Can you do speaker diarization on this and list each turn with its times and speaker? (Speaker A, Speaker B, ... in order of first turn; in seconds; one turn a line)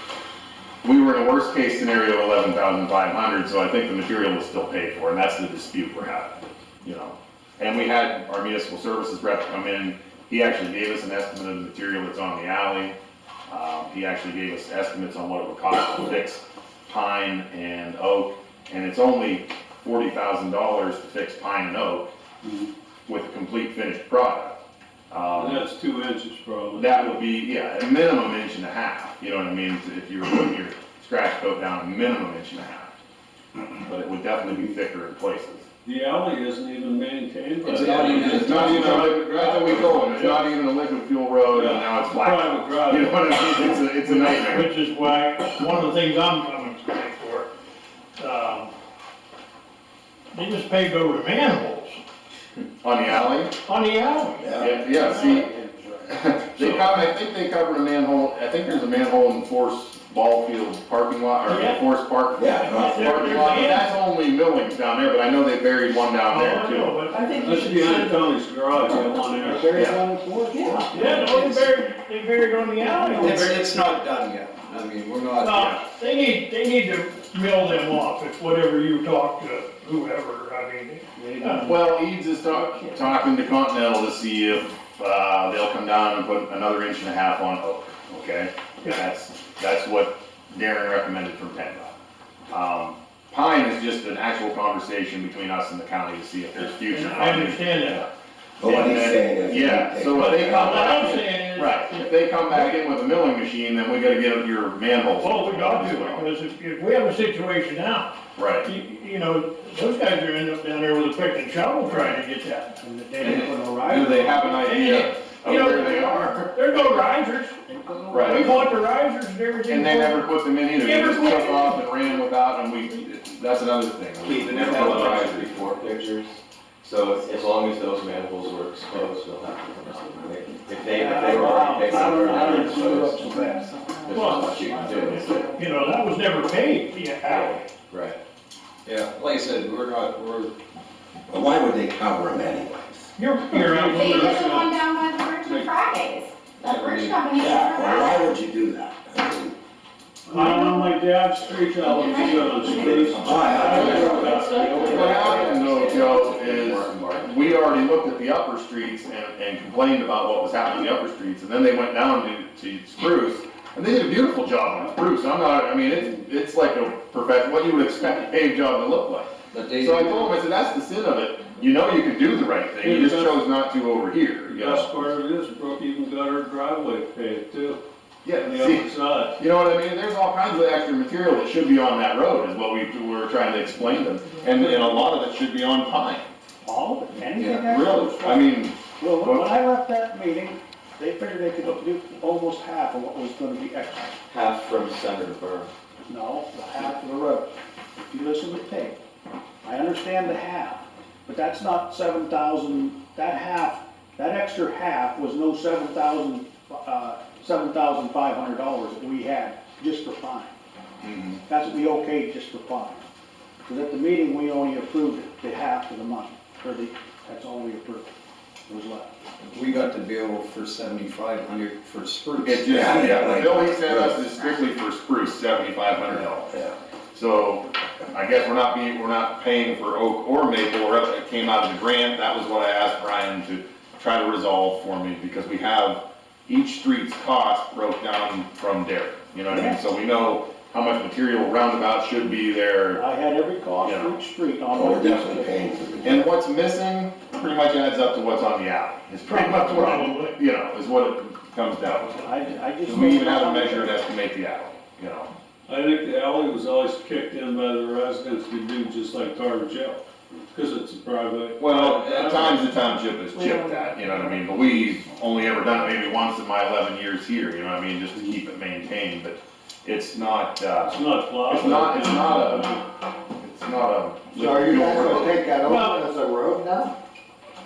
Speaker A: 0.8-12.9
Speaker A: 13.5-22.1
Speaker B: 22.4-22.7
Speaker A: 23.1-24.6
Speaker A: 25.1-25.6
Speaker B: 25.3-27.3
Speaker A: 26.8-32.9
Speaker A: 33.8-35.6
Speaker B: 35.8-40.5
Speaker C: 37.6-39.1
Speaker D: 38.0-38.4
Speaker A: 38.4-44.7
Speaker B: 41.5-44.4
Speaker E: 44.0-47.5
Speaker E: 48.2-48.7
Speaker E: 50.3-52.0
Speaker A: 52.8-53.5
Speaker E: 53.6-54.5
Speaker F: 54.4-54.8
Speaker A: 54.6-55.5
Speaker G: 54.6-56.8
Speaker A: 56.1-67.0
Speaker E: 56.6-57.0
Speaker E: 61.4-61.9
Speaker F: 62.4-63.5
Speaker E: 62.5-64.0
Speaker E: 66.3-67.3
Speaker H: 67.1-68.3
Speaker B: 67.3-69.9
Speaker G: 69.4-71.6
Speaker H: 70.5-70.8
Speaker E: 70.9-73.7
Speaker C: 73.0-75.8
Speaker E: 75.4-81.8
Speaker G: 81.2-81.8
Speaker A: 81.6-91.9
Speaker A: 92.5-98.0
Speaker E: 96.6-98.1
Speaker F: 98.6-100.9
Speaker A: 98.6-106.3
Speaker E: 100.0-102.7
Speaker E: 105.2-113.5
Speaker A: 108.4-108.7
Speaker A: 111.9-112.1
Speaker G: 112.8-114.8
Speaker A: 113.2-116.5
Speaker E: 114.5-117.6
Speaker G: 115.4-116.8
Speaker G: 117.7-118.8
Speaker A: 118.1-118.5
Speaker E: 118.2-122.2
Speaker A: 119.7-125.6
Speaker D: 124.2-135.5
Speaker G: 130.9-135.5
Speaker E: 134.1-137.7
Speaker D: 137.2-138.2
Speaker C: 138.8-140.5
Speaker F: 141.3-143.1
Speaker E: 143.2-144.4
Speaker B: 143.5-144.8
Speaker H: 144.0-148.2
Speaker B: 145.4-145.7
Speaker C: 146.6-147.2
Speaker F: 147.3-149.6
Speaker B: 150.3-155.6
Speaker E: 150.3-150.7
Speaker D: 151.8-158.2
Speaker H: 151.9-152.9
Speaker F: 153.2-154.3
Speaker A: 153.8-154.2
Speaker A: 154.8-174.9
Speaker C: 169.5-170.3
Speaker B: 172.8-173.4
Speaker B: 174.4-177.8
Speaker A: 178.2-178.9
Speaker B: 178.4-179.4
Speaker A: 179.4-186.3
Speaker G: 186.6-194.1
Speaker A: 187.6-189.5
Speaker D: 194.3-195.7
Speaker G: 196.1-199.0
Speaker G: 199.6-210.5
Speaker A: 211.0-211.3
Speaker G: 211.4-213.0
Speaker G: 213.6-218.1
Speaker G: 218.7-219.2
Speaker C: 219.4-223.1
Speaker A: 222.4-226.6
Speaker F: 222.7-224.3
Speaker A: 227.1-243.0
Speaker G: 239.5-239.8
Speaker G: 242.9-245.9
Speaker A: 243.8-244.2
Speaker F: 244.7-246.3
Speaker A: 246.0-255.3
Speaker E: 249.2-250.4
Speaker G: 252.1-254.0
Speaker B: 255.7-262.7
Speaker A: 261.6-272.7
Speaker H: 263.4-264.8
Speaker B: 270.8-272.9
Speaker A: 273.4-275.6
Speaker I: 274.3-276.9
Speaker E: 275.6-276.0